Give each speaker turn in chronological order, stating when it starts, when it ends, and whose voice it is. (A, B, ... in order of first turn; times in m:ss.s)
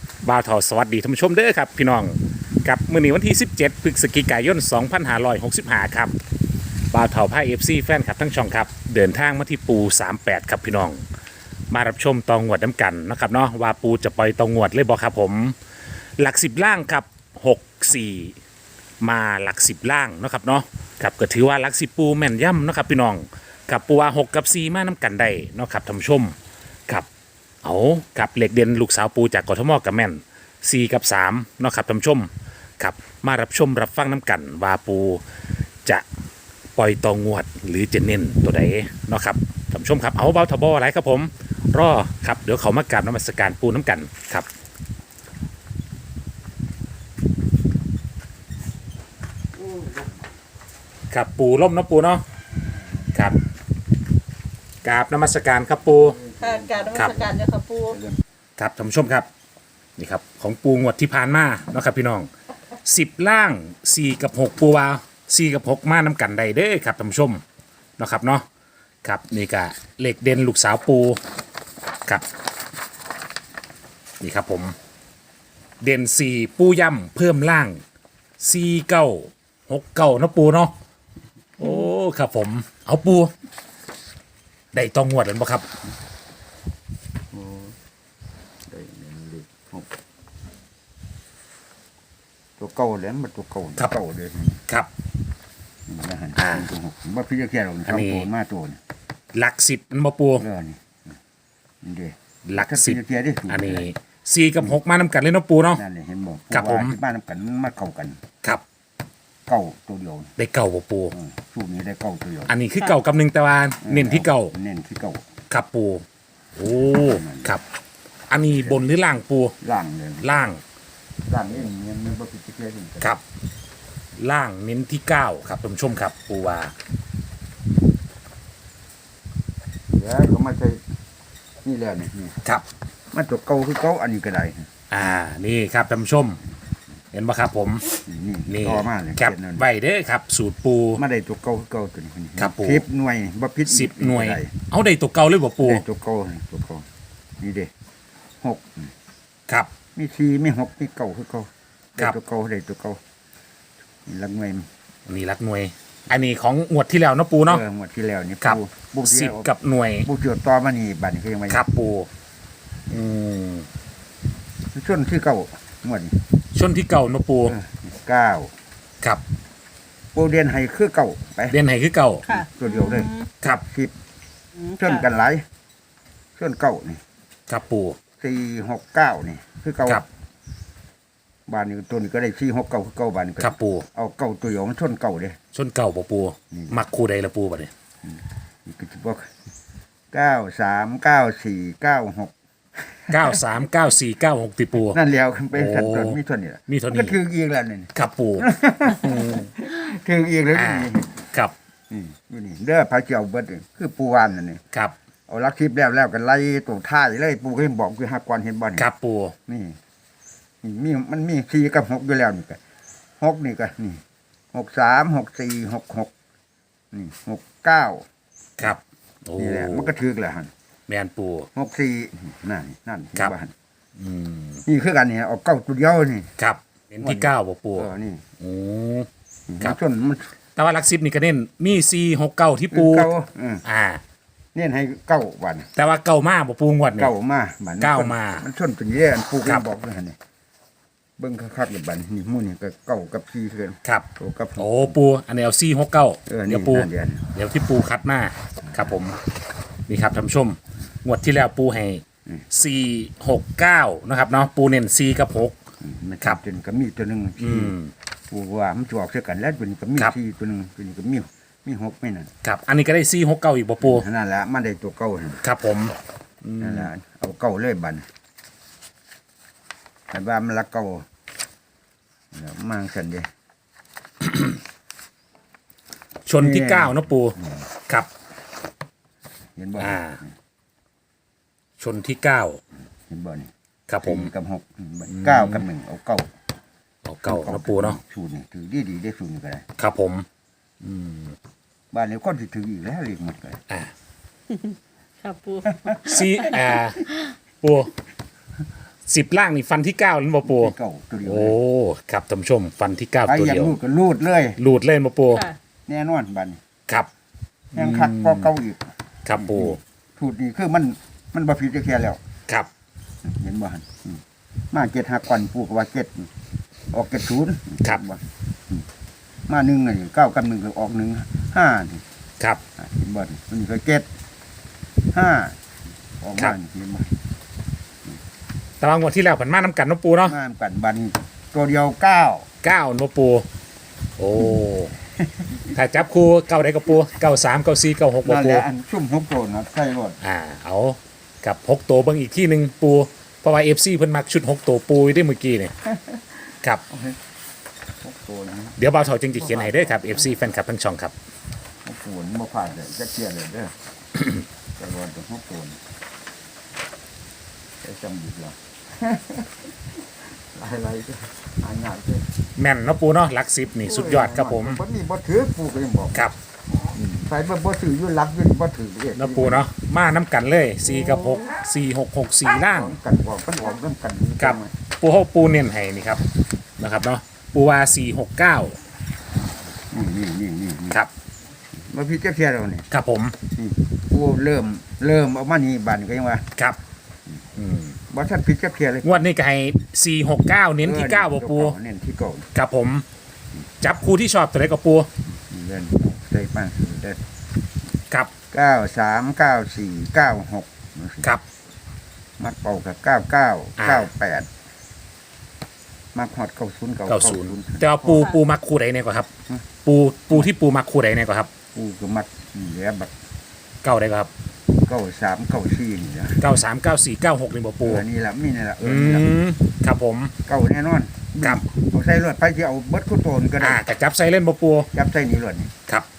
0:00.2-0:06.1 A
0:06.9-0:11.0 A
0:11.7-0:15.6 A
0:16.2-0:18.4 A
0:19.0-0:26.4 A
0:27.6-0:35.2 A
0:36.8-0:44.5 A
0:51.1-0:52.2 A
0:53.1-0:53.4 A
0:54.8-0:56.2 A
0:55.9-0:58.2 B
0:56.4-0:58.0 C
0:58.6-0:59.3 A
1:00.0-1:02.3 A
1:02.8-1:07.4 A
1:08.0-1:08.5 A
1:09.0-1:11.2 A
1:14.2-1:14.8 A
1:15.8-1:17.8 A
1:18.4-1:20.7 A
1:21.6-1:23.3 A
1:24.7-1:25.7 A
1:27.3-1:27.8 B
1:28.7-1:29.9 B
1:32.6-1:34.6 B
1:35.9-1:38.8 B
1:36.4-1:36.7 A
1:37.9-1:38.3 A
1:39.3-1:40.5 A
1:40.4-1:41.2 B
1:41.8-1:43.9 B
1:42.5-1:43.0 A
1:43.5-1:45.8 A
1:45.8-1:48.2 B
1:46.5-1:47.0 A
1:49.5-1:50.3 B
1:50.4-1:51.2 A
1:51.1-1:52.6 B
1:52.5-1:54.5 A
1:53.8-1:55.2 B
1:55.5-1:56.0 A
1:56.6-1:57.6 A
1:56.9-1:57.5 B
1:58.3-1:59.6 A
1:58.5-1:58.8 B
1:59.6-2:00.4 B
2:00.2-2:00.6 A
2:01.3-2:03.2 B
2:04.2-2:06.7 A
2:09.9-2:10.8 B
2:11.6-2:12.4 B
2:13.1-2:14.7 B
2:14.9-2:16.4 A
2:17.1-2:17.9 A
2:18.1-2:19.7 B
2:18.5-2:21.0 A
2:21.0-2:24.5 B
2:22.4-2:22.8 A
2:23.7-2:25.8 A
2:25.6-2:26.9 B
2:27.4-2:27.7 B
2:28.4-2:28.9 B
2:30.0-2:33.0 B
2:34.1-2:34.7 B
2:35.1-2:37.6 A
2:37.5-2:39.5 B
2:38.4-2:40.1 A
2:40.0-2:41.6 B
2:41.5-2:42.1 A
2:42.9-2:43.7 A
2:44.7-2:46.2 B
2:46.5-2:47.6 A
2:47.5-2:48.5 B
2:50.1-2:51.6 B
2:51.5-2:52.3 A
2:52.3-2:53.3 C
2:52.3-2:53.9 B
2:54.7-2:55.4 B
2:56.4-2:57.0 B
2:57.5-2:58.0 A
2:58.2-3:00.0 B
3:01.5-3:05.4 B
3:03.4-3:03.9 A
3:05.5-3:07.7 A
3:06.5-3:06.8 B
3:08.0-3:09.3 B
3:10.1-3:12.3 B
3:13.0-3:13.4 B
3:13.1-3:15.0 A
3:14.9-3:21.2 B
3:15.5-3:17.2 A
3:17.9-3:19.5 A
3:20.5-3:21.5 A
3:21.9-3:24.6 B
3:25.3-3:28.9 B
3:28.8-3:29.4 A
3:29.5-3:29.8 B
3:30.6-3:32.6 B
3:33.2-3:34.0 B
3:34.5-3:36.1 B
3:36.9-3:38.1 B
3:38.6-3:40.0 A
3:39.4-3:40.5 B
3:40.9-3:41.5 A
3:41.6-3:43.5 B
3:44.0-3:44.6 A
3:44.7-3:46.3 B
3:46.4-3:47.9 A
3:47.0-3:48.2 B
3:48.4-3:49.1 A
3:49.5-3:50.3 B
3:50.6-3:53.1 A
3:52.7-3:53.6 B
3:53.6-3:54.0 A
3:54.6-3:55.7 B
3:55.8-3:57.1 A
3:57.0-4:00.2 B
3:57.8-3:58.5 A
4:01.2-4:05.0 B
4:03.8-4:09.2 A
4:06.3-4:07.3 B
4:08.6-4:08.9 B
4:09.9-4:15.6 A
4:15.8-4:17.8 B
4:17.4-4:17.9 A
4:18.3-4:22.3 B
4:22.4-4:24.1 A
4:23.8-4:25.4 B
4:25.4-4:26.9 A
4:26.6-4:28.1 B
4:30.1-4:31.1 B
4:32.3-4:33.3 B
4:36.3-4:38.1 A
4:36.4-4:37.7 B
4:39.6-4:40.3 B
4:39.8-4:40.2 A
4:41.8-4:42.6 A
4:43.1-4:43.5 B
4:43.9-4:44.3 A
4:44.0-4:46.3 B
4:45.1-4:45.6 A
4:47.0-4:48.0 A
4:47.2-4:49.7 B
4:49.8-4:50.3 A
4:50.8-4:51.4 A
4:51.9-4:53.6 B
4:54.6-4:56.4 C
4:55.8-4:56.2 B
4:56.0-4:57.1 A
4:57.6-4:57.9 A
4:59.1-5:00.7 A
5:00.4-5:01.6 B
5:01.2-5:03.8 A
5:03.3-5:04.6 B
5:04.6-5:05.5 A
5:05.9-5:06.6 B
5:07.7-5:12.2 B
5:07.8-5:08.5 A
5:09.2-5:09.8 A
5:13.2-5:16.3 B
5:16.9-5:18.9 B
5:19.5-5:22.0 B
5:22.8-5:24.1 B
5:25.1-5:25.6 B
5:26.2-5:27.2 B
5:28.8-5:30.4 A
5:30.2-5:32.5 B
5:32.6-5:33.5 A
5:34.2-5:35.0 A
5:35.2-5:35.8 B
5:35.7-5:38.6 A
5:38.2-5:40.2 B
5:40.2-5:45.7 A
5:45.9-5:47.2 B
5:48.0-5:48.8 B
5:48.8-5:51.1 A
5:49.4-5:50.4 B
5:51.8-5:53.8 B
5:54.8-5:55.8 B
5:57.8-5:59.8 B
6:00.4-6:02.3 B
6:02.6-6:04.8 A
6:03.8-6:06.2 B
6:06.8-6:09.7 B
6:09.2-6:13.0 A
6:10.9-6:11.4 B
6:12.5-6:14.7 B
6:14.4-6:16.2 A
6:16.8-6:18.8 A
6:19.9-6:21.0 B
6:21.8-6:22.9 B
6:22.9-6:23.4 A
6:23.5-6:26.5 B
6:27.6-6:28.0 A
6:28.1-6:29.2 B
6:29.0-6:31.8 A
6:30.8-6:32.5 B
6:32.5-6:33.1 A
6:33.8-6:35.1 A
6:35.3-6:37.2 B
6:38.5-6:41.3 B
6:42.4-6:44.5 B
6:43.8-6:44.1 A
6:46.1-6:48.3 B
6:47.1-6:49.3 A
6:49.8-6:51.5 A
6:51.7-6:53.1 B
6:53.8-6:54.3 A
6:54.8-6:56.4 B
6:56.4-6:58.0 A
6:57.8-6:59.3 B
6:58.8-7:00.3 A
7:00.5-7:03.8 B
7:03.6-7:04.9 A
7:04.9-7:05.7 B